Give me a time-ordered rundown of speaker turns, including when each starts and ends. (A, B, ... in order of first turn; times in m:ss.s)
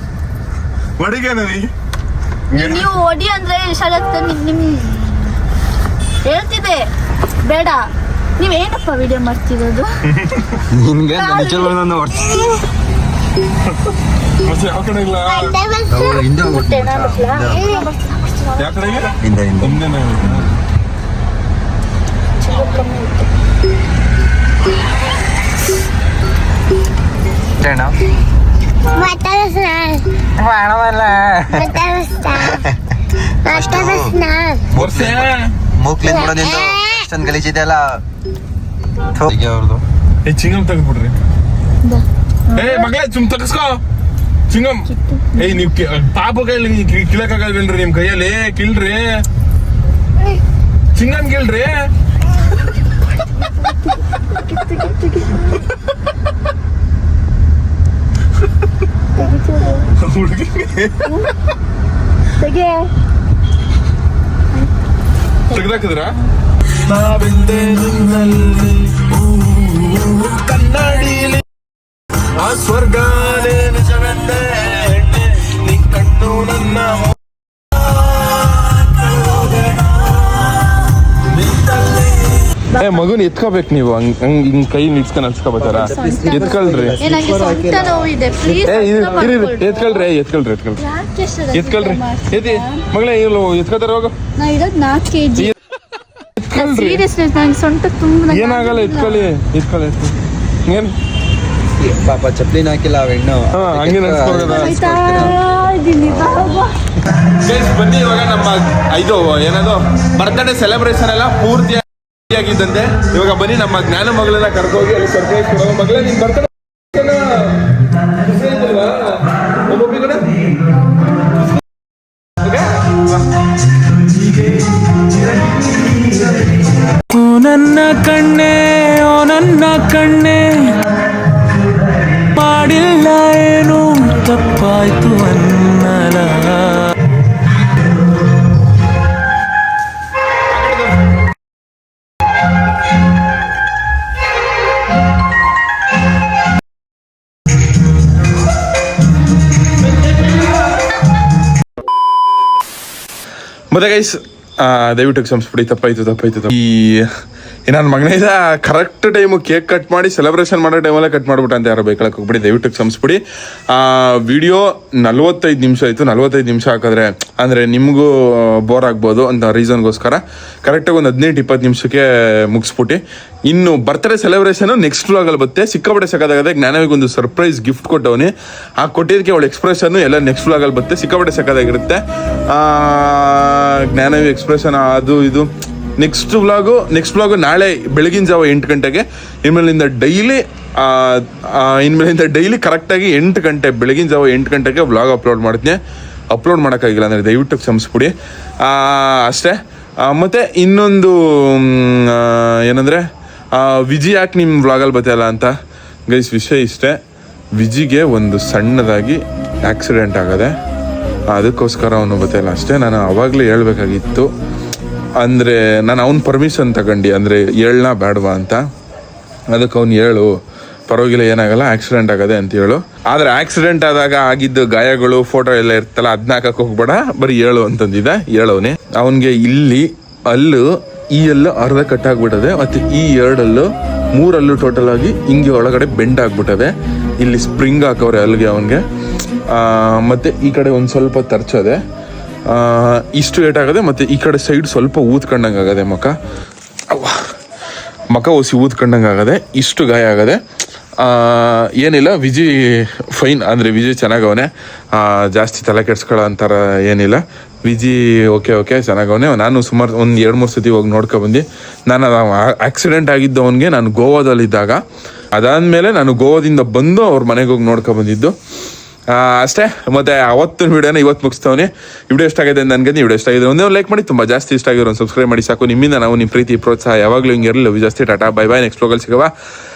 0:01.0-0:01.7 A
0:02.5-0:05.4 B
0:02.5-0:02.9 A
0:06.2-0:06.9 B
0:07.4-0:09.9 B
0:10.1-0:10.6 A
0:10.7-0:12.4 C
0:11.1-0:11.7 B
0:14.4-0:15.6 A
0:15.2-0:16.2 D
0:15.8-0:17.7 C
0:16.4-0:18.7 B
0:17.6-0:17.9 D
0:18.6-0:20.5 A
0:19.2-0:19.8 C
0:22.4-0:23.3 B
0:27.6-0:28.0 C
0:28.9-0:30.1 D
0:30.4-0:31.8 C
0:31.5-0:32.6 D
0:32.5-0:32.8 C
0:33.4-0:34.7 D
0:33.5-0:38.0 C
0:34.8-0:35.5 A
0:36.1-0:37.0 D
0:39.1-0:39.8 C
0:40.2-0:41.2 A
0:41.8-0:42.9 B
0:42.5-0:43.8 A
0:44.5-0:44.8 A
0:44.9-0:45.6 B
0:45.4-0:49.2 A
0:51.0-0:51.8 A
0:53.4-0:55.6 B
0:59.2-0:59.9 B
1:00.0-1:01.1 A
1:01.0-1:01.3 B
1:02.4-1:02.9 B
1:05.5-1:06.2 B
1:05.5-1:06.1 A
1:06.8-1:11.4 A
1:12.4-1:17.2 A
1:19.0-1:19.9 A
1:21.4-1:22.0 A
1:22.7-1:23.0 B
1:22.8-1:27.0 A
1:25.6-1:28.1 C
1:25.8-1:30.1 B
1:28.6-1:30.8 A
1:30.8-1:32.8 B
1:31.5-1:34.1 A
1:34.4-1:35.5 B
1:36.4-1:37.0 A
1:36.5-1:39.3 B
1:38.3-1:40.1 A
1:40.7-1:41.0 A
1:41.8-1:45.4 C
1:43.5-1:44.8 A
1:44.5-1:46.7 B
1:47.4-1:57.6 A
1:58.2-2:00.4 A
2:07.6-2:08.0 E
2:08.6-2:08.9 E
2:12.4-2:16.3 E
2:33.7-2:37.1 A
2:37.7-2:43.2 A
2:43.7-3:15.8 A
3:16.3-3:23.0 A
3:23.6-3:25.5 A
3:26.1-3:27.0 A
3:27.6-3:30.5 A
3:31.3-3:34.3 A
3:35.2-3:38.6 A
3:39.5-3:40.3 A
3:40.9-3:58.8 A
3:59.5-4:01.8 A
4:02.5-4:06.1 A
4:06.9-4:07.2 A
4:08.1-4:10.4 A
4:11.0-4:24.8 A
4:25.4-4:28.3 A
4:29.1-4:39.3 A